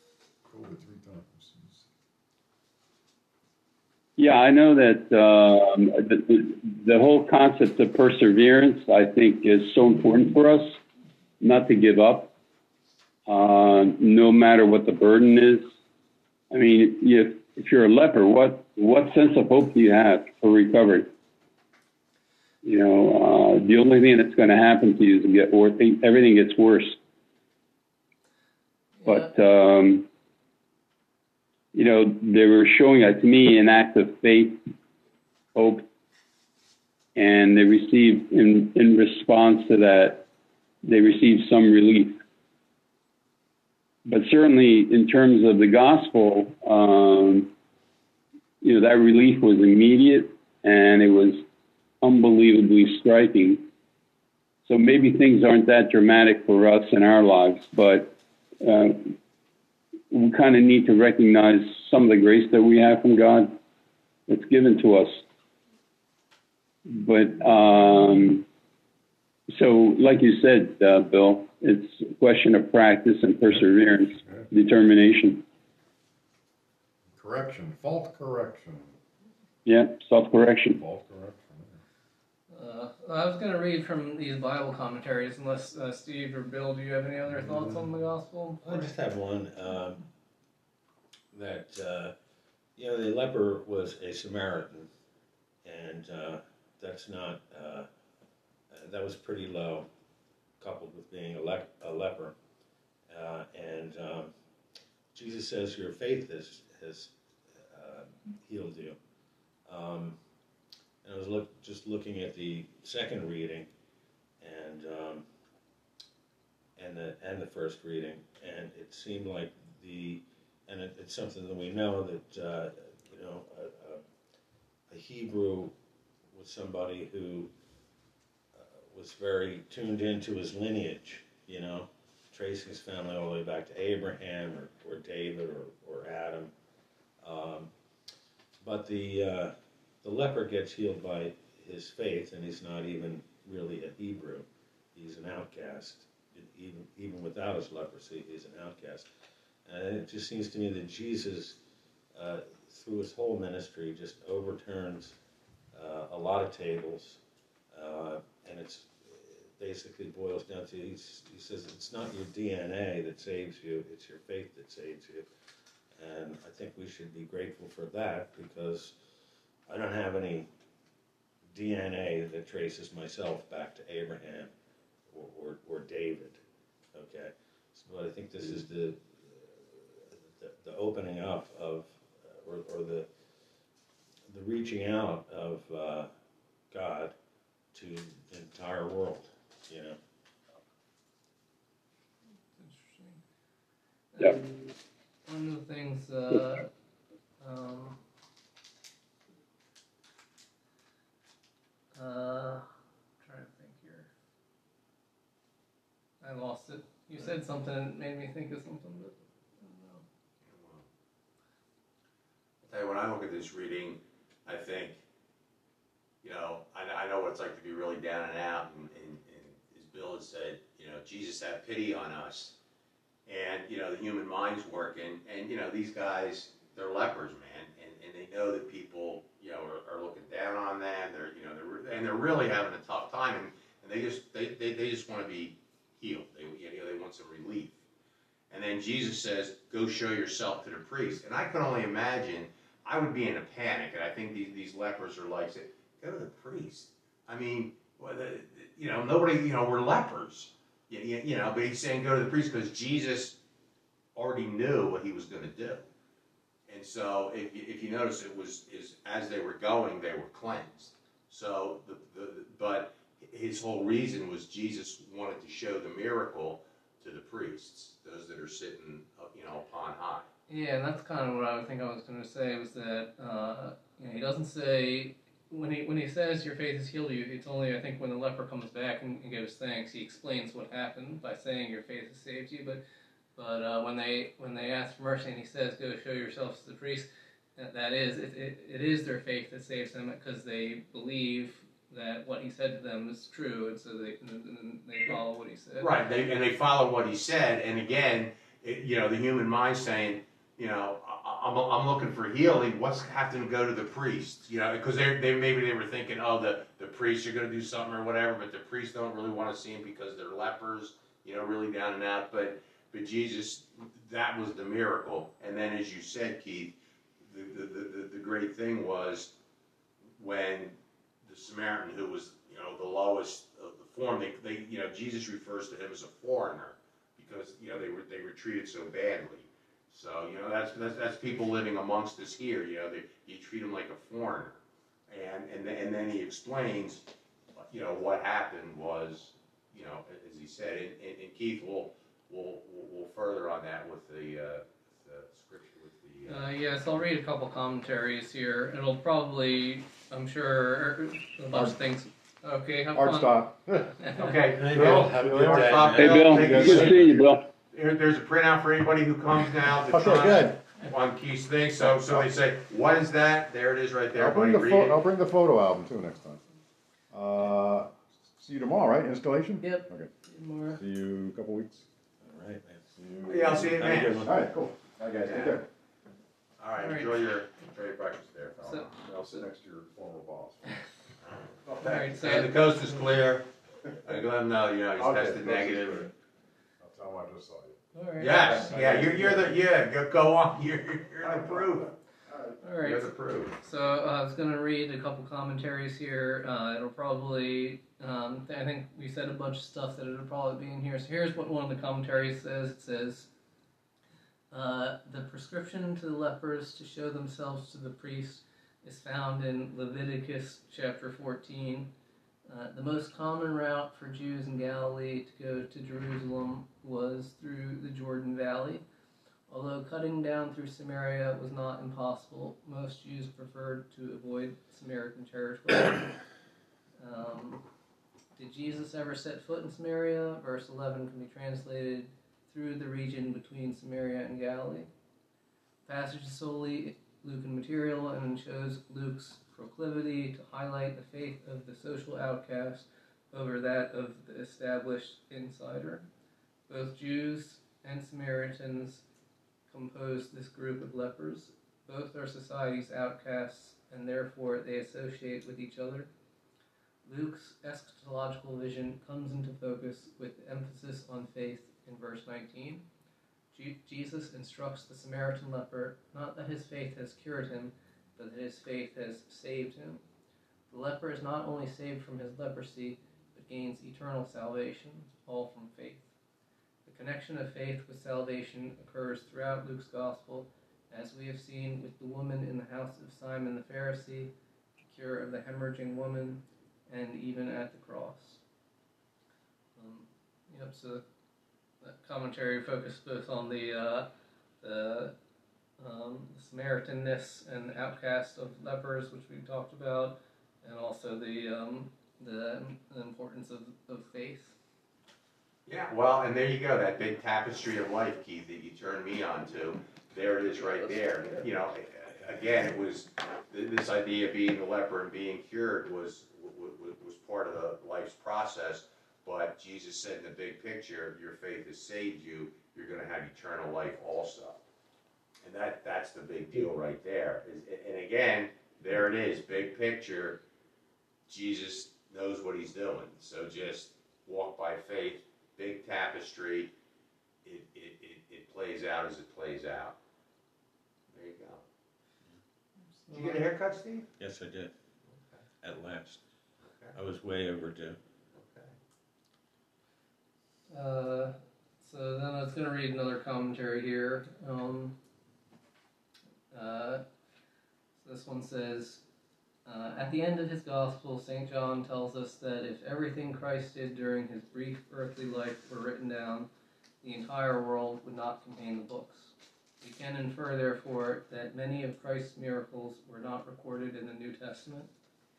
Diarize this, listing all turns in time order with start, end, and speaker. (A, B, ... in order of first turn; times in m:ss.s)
0:00.4-0:01.8 A
0:04.2-0:10.8 B
0:11.4-0:12.3 B
0:13.3-0:15.6 B
0:16.5-0:21.1 B
0:22.6-0:27.0 B
0:29.0-0:29.3 C
0:29.1-0:30.0 B
0:31.7-0:34.6 B
0:35.5-0:35.8 B
0:37.2-0:40.2 B
0:40.8-0:42.2 B
0:44.0-0:47.5 B
0:48.6-0:51.4 B
0:52.0-0:53.6 B
0:54.7-0:59.1 B
1:00.1-1:03.5 B
1:04.3-1:05.2 B
1:06.9-1:08.4 B
1:09.5-1:15.4 B
1:17.2-1:19.0 A
1:19.6-1:20.8 B
1:20.7-1:21.8 A
1:22.5-1:28.9 C
1:28.6-1:30.1 D
1:31.3-1:32.1 D
1:32.8-1:34.9 D
1:35.6-1:37.9 D
1:38.7-1:39.9 D
1:40.6-1:42.4 D
1:43.1-1:44.3 D
1:45.1-1:49.0 D
1:49.7-1:50.2 D
1:51.0-1:53.7 D
1:54.4-1:55.2 D
1:56.8-2:04.0 D
2:04.9-2:05.7 D
2:06.3-2:07.5 D
2:08.5-2:16.5 D
2:17.2-2:17.7 D
2:18.6-2:29.1 D
2:29.7-2:31.6 D
2:32.2-2:35.2 D
2:35.7-2:37.2 D
2:37.7-2:45.3 D
2:46.0-2:49.0 D
2:49.7-2:50.5 D
2:51.5-2:54.5 D
2:55.1-2:56.4 D
2:56.9-3:03.1 D
3:04.3-3:06.1 D
3:06.7-3:07.2 D
3:07.7-3:10.0 D
3:12.6-3:13.2 C
3:14.1-3:14.6 C
3:15.3-3:16.7 C
3:17.4-3:18.0 C
3:21.9-3:22.6 C
3:23.2-3:24.1 C
3:26.2-3:30.0 C
3:30.4-3:30.9 E
3:32.6-3:35.0 E
3:36.2-3:42.6 E
3:43.3-3:57.8 E
3:58.5-4:13.4 E
4:14.2-4:15.9 E
4:16.7-4:30.3 E
4:30.5-4:42.8 C
4:43.4-4:55.9 C
4:55.8-5:19.3 E
5:20.2-5:46.8 E
5:46.3-5:54.4 C
5:52.9-5:54.0 A
5:54.1-5:57.2 E
5:54.6-5:57.1 D
5:54.7-5:57.4 A
5:56.0-5:57.4 B
5:57.7-6:05.0 E
5:59.9-6:00.6 A
6:02.0-6:02.3 A
6:04.1-6:06.4 A
6:07.1-6:10.1 A
6:09.6-6:10.8 C
6:10.7-6:11.9 A
6:12.2-6:12.9 D
6:13.0-6:15.6 A
6:13.3-6:14.3 E
6:13.6-6:14.4 D
6:15.2-6:15.6 E
6:16.6-6:19.0 E
6:16.8-6:17.2 C
6:19.0-6:20.8 A
6:21.2-6:23.5 E
6:21.6-6:22.1 A
6:21.8-6:22.7 C
6:24.0-6:26.1 E
6:25.0-6:26.1 A
6:26.8-6:29.6 A
6:27.9-6:28.6 C
6:28.2-6:31.9 E
6:31.2-6:31.9 A
6:32.6-6:33.1 C
6:32.8-6:33.6 E
6:33.6-6:43.3 C
6:44.5-6:51.9 C
6:52.5-6:58.8 C
6:59.5-7:06.2 C
7:07.0-7:07.6 C
7:08.4-7:14.9 C
7:15.9-7:26.1 C
7:26.7-7:29.0 C
7:29.7-7:36.1 C
7:37.0-7:42.8 C
7:43.5-7:50.0 C
7:50.7-7:56.1 C
7:56.9-8:08.4 C
8:09.8-8:11.0 C
8:11.8-8:14.1 C
8:14.6-8:15.1 C
8:15.8-8:24.6 C
8:25.7-8:44.6 E
8:45.4-8:50.4 E
8:51.3-8:56.7 E
8:57.4-9:00.0 E
9:01.1-9:01.6 E
9:03.0-9:03.4 C
9:03.1-9:04.1 E
9:04.2-9:04.7 D
9:05.6-9:06.2 D
9:06.7-9:06.9 E
9:06.9-9:08.0 D
9:08.4-9:08.7 E
9:10.7-9:15.0 C
9:16.5-9:17.0 C
9:18.0-9:19.0 C
9:19.7-9:26.5 C
9:27.0-9:34.9 C